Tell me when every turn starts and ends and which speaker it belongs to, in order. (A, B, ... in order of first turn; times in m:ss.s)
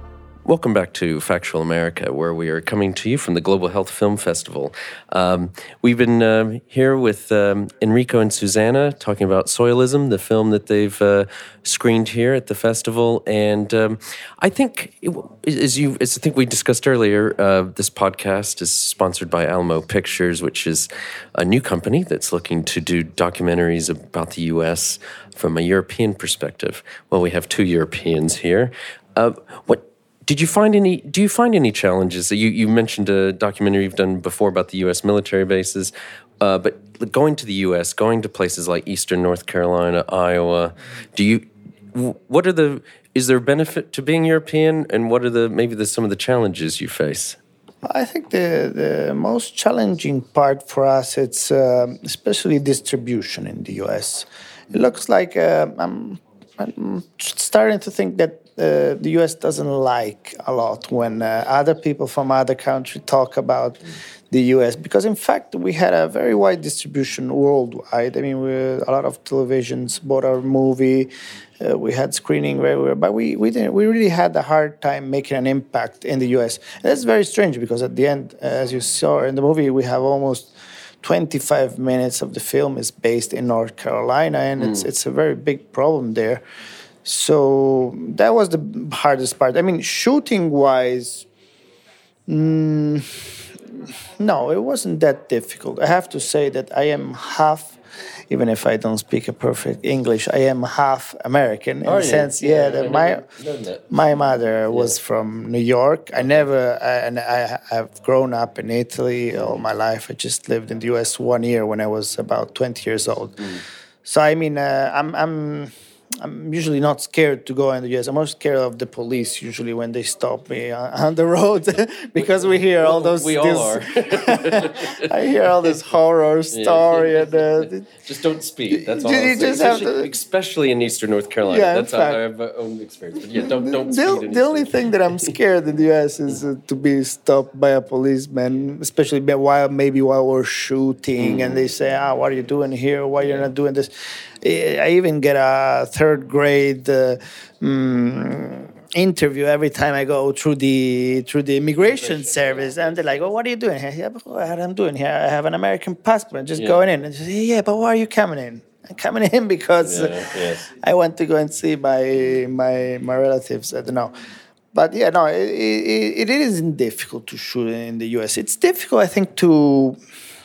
0:00.4-0:47.4 A
0:47.8-1:26.4 B
1:27.0-1:31.3 B
1:32.3-1:37.8 B
1:38.3-1:43.3 B
1:41.8-1:43.9 A
1:43.9-1:53.4 B
1:44.7-1:45.0 A
1:54.0-2:07.9 B
2:02.6-2:05.1 A
2:06.5-2:15.2 A
2:08.7-2:10.1 B
2:11.4-2:12.2 B
2:13.3-2:44.1 B
2:21.2-2:21.6 A
2:31.8-2:33.1 A
2:39.8-2:40.7 A
2:44.7-2:50.0 B